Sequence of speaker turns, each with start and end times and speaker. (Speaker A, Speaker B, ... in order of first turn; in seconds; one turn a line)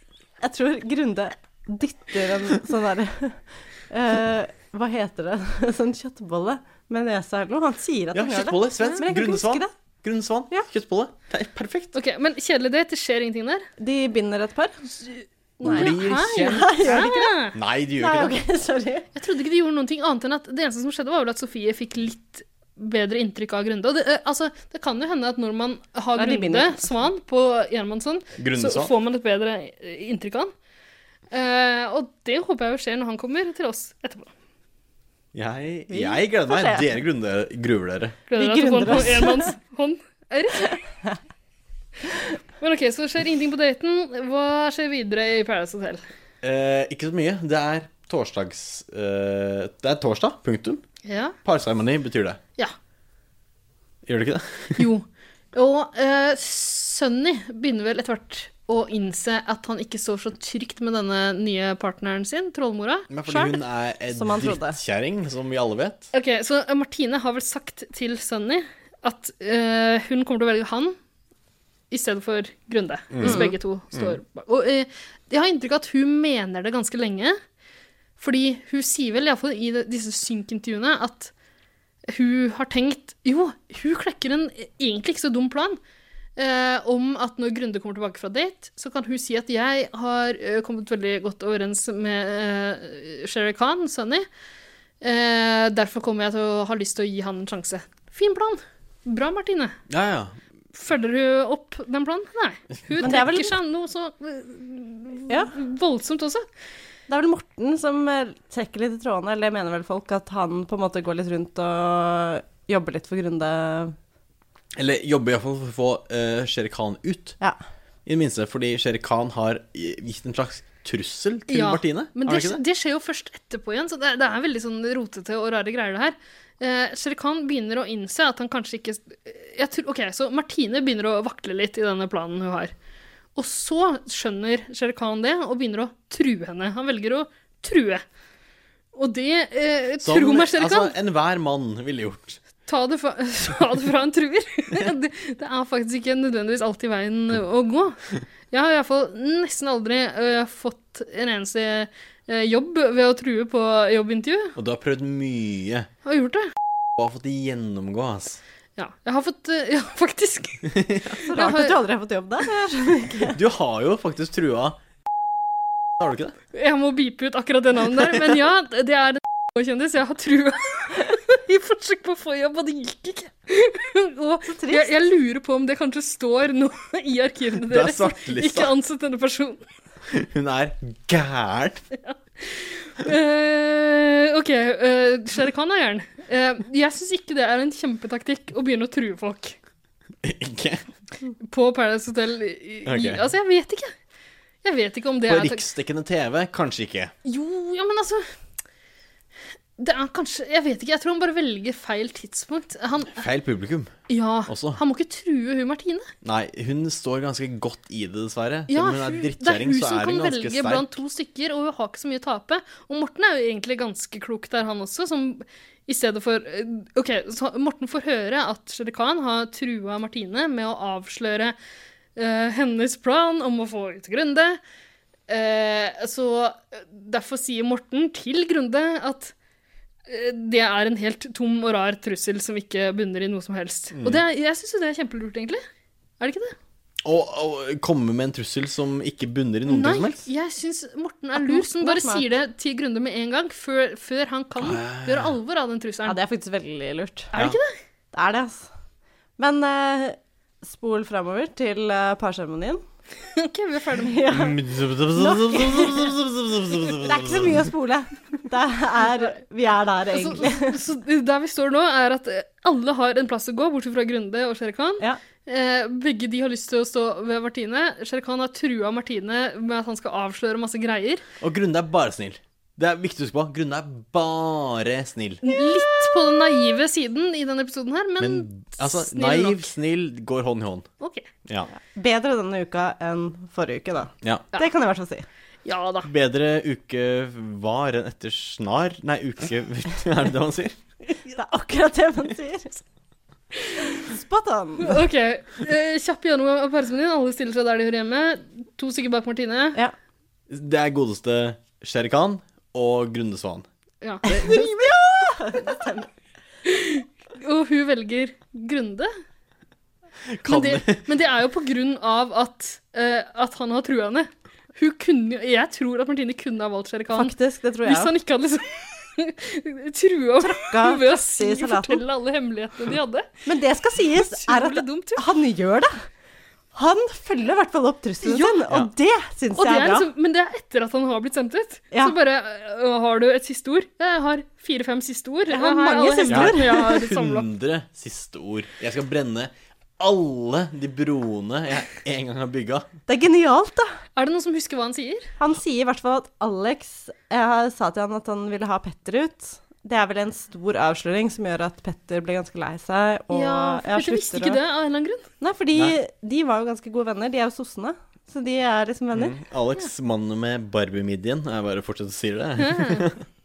Speaker A: 0.4-9.7
Speaker B: 8.1-11.9
Speaker C: 11.9-13.7
Speaker A: 13.8-14.8
Speaker C: 15.1-17.6
Speaker A: 15.6-17.4
Speaker B: 15.6-18.4
Speaker A: 18.0-19.1
Speaker C: 19.1-30.5
Speaker A: 26.2-26.9
Speaker B: 28.4-28.9
Speaker C: 31.3-34.3
Speaker B: 35.3-38.2
Speaker A: 35.9-36.9
Speaker C: 38.3-40.8
Speaker A: 38.4-39.5
Speaker A: 40.7-41.2
Speaker C: 42.6-46.0
Speaker B: 46.4-50.8
Speaker C: 51.1-51.4
Speaker B: 51.5-52.4
Speaker B: 54.1-54.9
Speaker C: 54.8-63.6
Speaker B: 63.1-66.1
Speaker A: 64.1-64.8
Speaker C: 66.1-71.0
Speaker C: 71.9-77.4
Speaker B: 73.1-74.2
Speaker A: 73.2-73.5
Speaker C: 78.2-81.3
Speaker C: 82.1-85.8
Speaker C: 86.4-94.3
Speaker C: 95.0-99.8
Speaker B: 99.9-100.4
Speaker C: 100.8-106.5
Speaker A: 103.0-103.5
Speaker A: 107.1-114.0
Speaker B: 114.8-117.4
Speaker B: 118.1-122.6
Speaker C: 121.5-132.7
Speaker C: 133.4-138.0
Speaker C: 138.9-140.9
Speaker B: 140.0-142.4
Speaker C: 142.7-148.0
Speaker C: 148.5-154.6
Speaker B: 154.6-155.9
Speaker C: 156.1-156.5
Speaker B: 157.0-158.4
Speaker C: 158.8-161.8
Speaker B: 160.7-161.2
Speaker A: 161.3-163.4
Speaker B: 163.3-164.8
Speaker B: 165.9-166.4
Speaker C: 166.5-179.6
Speaker A: 174.4-174.9
Speaker B: 177.6-178.7
Speaker B: 180.1-181.8
Speaker C: 182.0-189.6
Speaker B: 190.2-190.8
Speaker C: 191.5-193.9
Speaker B: 192.9-193.3
Speaker C: 194.6-195.6
Speaker B: 195.3-197.1
Speaker C: 197.2-198.2
Speaker C: 199.8-203.3
Speaker B: 203.1-203.9
Speaker C: 204.1-206.1
Speaker B: 204.5-204.8
Speaker B: 206.2-211.0
Speaker C: 208.7-221.6
Speaker C: 222.2-224.6
Speaker C: 225.3-229.3
Speaker C: 230.1-235.6
Speaker B: 234.0-234.2
Speaker C: 236.2-236.6
Speaker B: 237.0-240.2
Speaker C: 239.7-246.2
Speaker A: 241.3-242.3
Speaker B: 244.6-245.3
Speaker A: 246.1-247.3
Speaker C: 247.3-247.7
Speaker B: 247.3-247.6
Speaker A: 248.1-248.7
Speaker A: 249.4-252.8
Speaker C: 253.3-254.3
Speaker A: 254.0-254.6
Speaker B: 254.3-257.7
Speaker A: 255.1-256.1
Speaker A: 256.9-260.8
Speaker C: 260.1-271.2
Speaker B: 271.4-275.4
Speaker C: 275.4-279.7
Speaker B: 278.2-280.9
Speaker C: 281.0-281.3
Speaker A: 281.8-285.3
Speaker C: 285.6-286.1
Speaker B: 286.1-290.8
Speaker A: 291.2-292.7
Speaker A: 293.9-295.0
Speaker C: 294.8-299.8
Speaker B: 300.5-303.7
Speaker C: 304.0-304.3
Speaker B: 304.2-305.0
Speaker A: 304.3-306.1
Speaker C: 306.6-309.1
Speaker B: 310.3-311.0
Speaker C: 310.5-323.4
Speaker A: 317.1-318.1
Speaker A: 320.4-322.0
Speaker A: 323.5-325.9
Speaker C: 324.0-325.3
Speaker A: 326.8-330.1
Speaker C: 328.2-328.6
Speaker C: 329.6-337.5
Speaker A: 335.5-336.9
Speaker B: 336.3-342.9
Speaker A: 343.1-343.9
Speaker C: 344.2-345.3
Speaker A: 345.4-354.6
Speaker C: 353.3-355.3
Speaker A: 355.4-359.3
Speaker B: 359.1-363.2
Speaker C: 362.6-363.1